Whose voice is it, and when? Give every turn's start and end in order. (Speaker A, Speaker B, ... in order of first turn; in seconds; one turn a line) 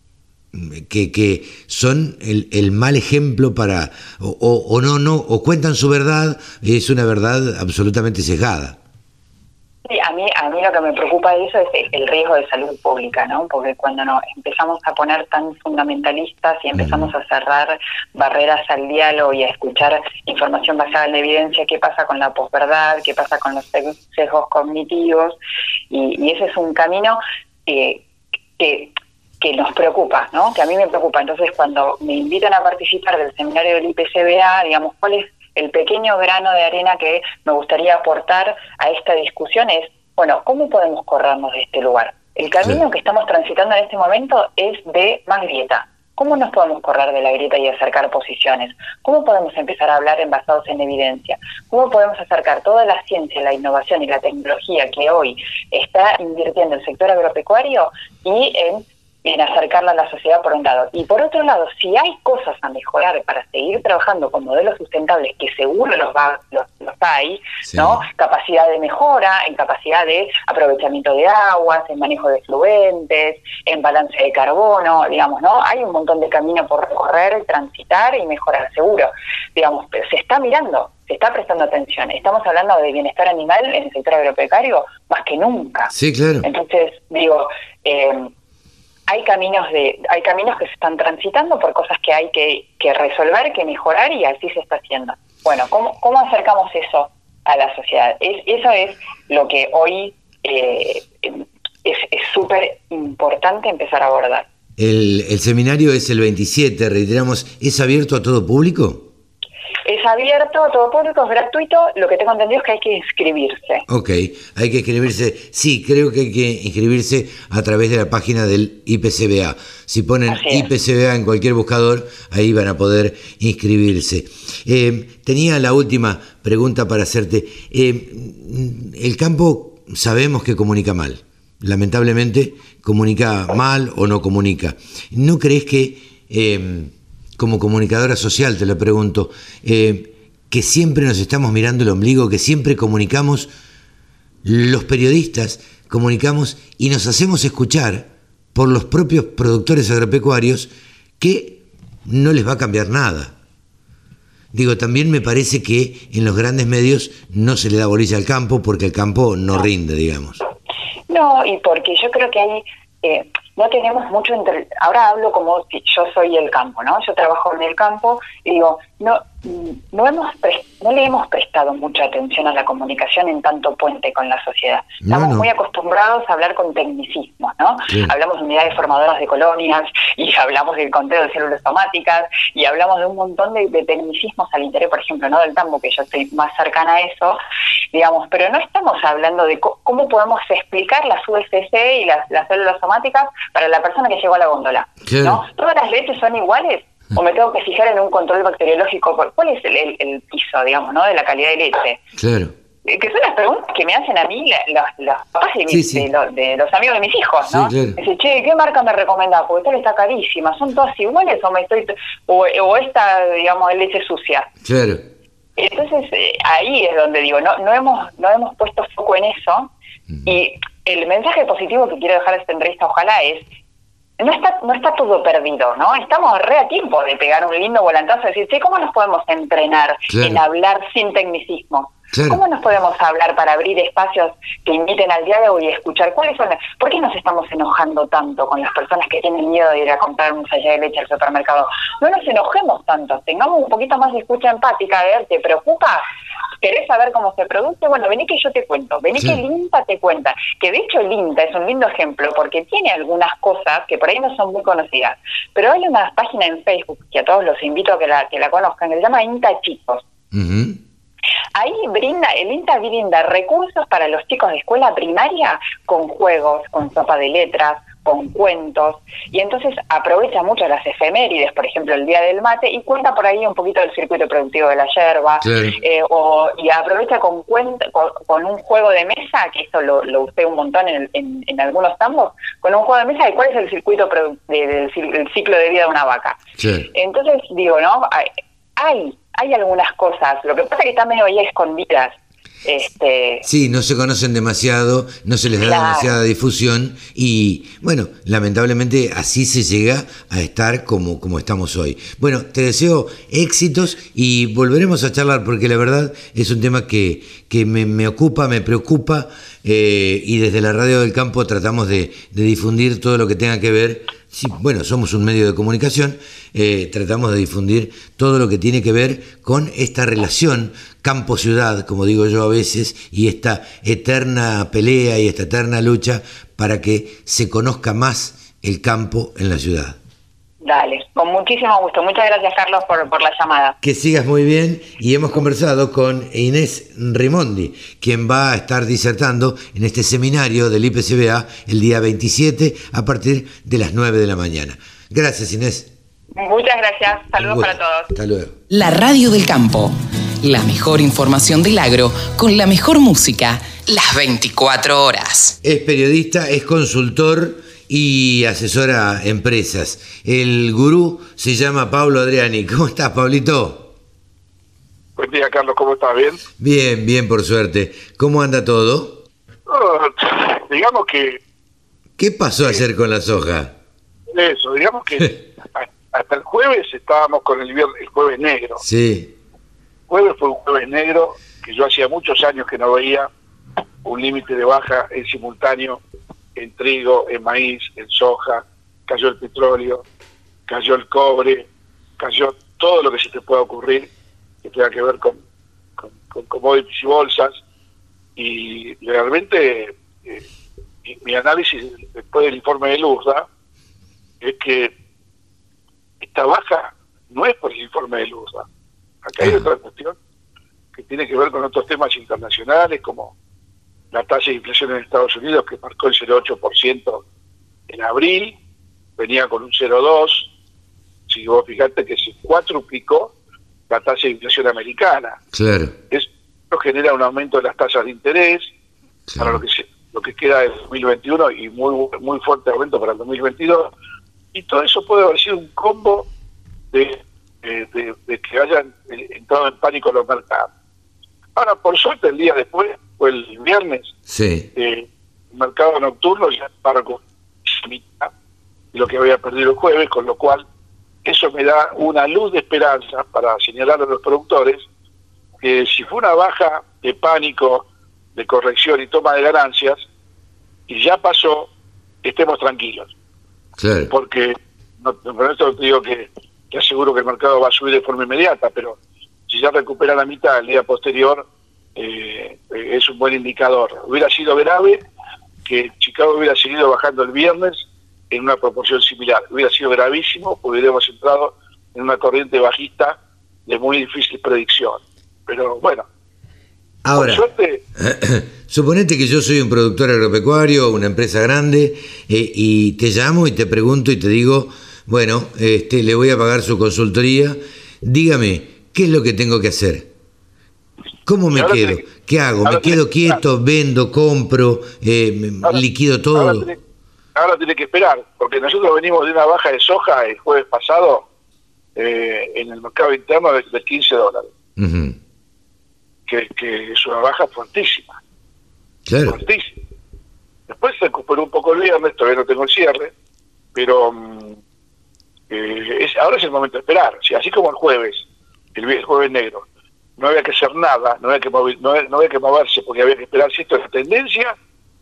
Speaker A: 0.5-8.8
Speaker B: 9.9-25.4
Speaker A: 16.7-17.1
Speaker B: 25.9-28.0
Speaker B: 28.6-88.3
Speaker A: 67.6-68.0
Speaker A: 85.9-86.5
Speaker B: 89.1-104.5
Speaker A: 104.8-109.1
Speaker B: 109.8-113.8
Speaker A: 113.9-143.5
Speaker B: 120.3-120.7
Speaker A: 144.4-153.3
Speaker A: 154.5-160.4
Speaker B: 161.1-187.4
Speaker A: 175.0-175.5
Speaker A: 177.9-178.1
Speaker B: 187.9-202.0
Speaker A: 195.1-195.4
Speaker A: 202.2-202.5
Speaker B: 202.8-214.5
Speaker A: 205.7-206.1
Speaker A: 207.4-208.0
Speaker A: 214.6-215.0
Speaker B: 215.6-219.7
Speaker B: 220.2-223.5
Speaker B: 224.2-246.1
Speaker A: 230.1-230.4
Speaker A: 232.1-232.4
Speaker B: 246.6-260.0
Speaker A: 260.3-260.8
Speaker B: 261.6-286.4
Speaker A: 275.4-275.8
Speaker A: 286.6-286.9
Speaker B: 286.9-293.4
Speaker A: 293.4-330.0
Speaker B: 295.6-296.1
Speaker B: 330.6-333.8
Speaker A: 333.8-345.9
Speaker B: 346.4-348.1
Speaker A: 347.4-348.6
Speaker C: 348.7-355.6
Speaker A: 355.6-363.9
Speaker D: 365.1-366.4
Speaker A: 366.6-369.2
Speaker D: 369.7-371.4
Speaker A: 372.2-373.7
Speaker D: 374.3-378.8
Speaker A: 378.8-379.3
Speaker D: 380.1-383.3
Speaker D: 384.0-386.0
Speaker D: 386.6-390.0
Speaker D: 390.7-391.7
Speaker D: 392.2-394.1
Speaker D: 394.6-395.4
Speaker D: 396.0-397.6
Speaker D: 398.4-400.4
Speaker D: 401.1-403.5
Speaker D: 404.4-404.9
Speaker D: 406.2-408.6
Speaker D: 409.2-410.2
Speaker A: 409.4-409.7
Speaker D: 410.9-413.3
Speaker D: 414.1-417.2
Speaker D: 417.9-418.6
Speaker D: 419.2-420.5
Speaker D: 421.3-423.3
Speaker D: 423.9-425.4
Speaker A: 425.5-425.9
Speaker D: 426.1-428.7
Speaker A: 429.3-429.6
Speaker D: 429.4-433.9
Speaker D: 434.5-436.3
Speaker D: 436.9-440.7
Speaker D: 441.6-444.1
Speaker A: 444.3-444.7
Speaker D: 444.8-448.3
Speaker D: 448.9-450.6
Speaker D: 451.2-454.9
Speaker D: 455.6-460.0
Speaker D: 460.9-461.7
Speaker D: 462.2-463.1
Speaker A: 463.8-464.1
Speaker D: 464.1-475.0
Speaker D: 475.6-486.1
Speaker A: 487.0-500.1
Speaker D: 487.1-487.8
Speaker A: 501.2-506.7
Speaker D: 501.5-502.1
Speaker D: 502.6-503.4
Speaker D: 506.4-506.8
Speaker D: 507.4-511.2
Speaker D: 512.0-514.5
Speaker A: 514.8-515.2
Speaker D: 516.3-518.2
Speaker A: 519.1-519.4
Speaker D: 519.3-519.8
Speaker D: 520.7-523.1
Speaker D: 523.8-524.6
Speaker D: 525.5-529.6
Speaker D: 530.2-534.6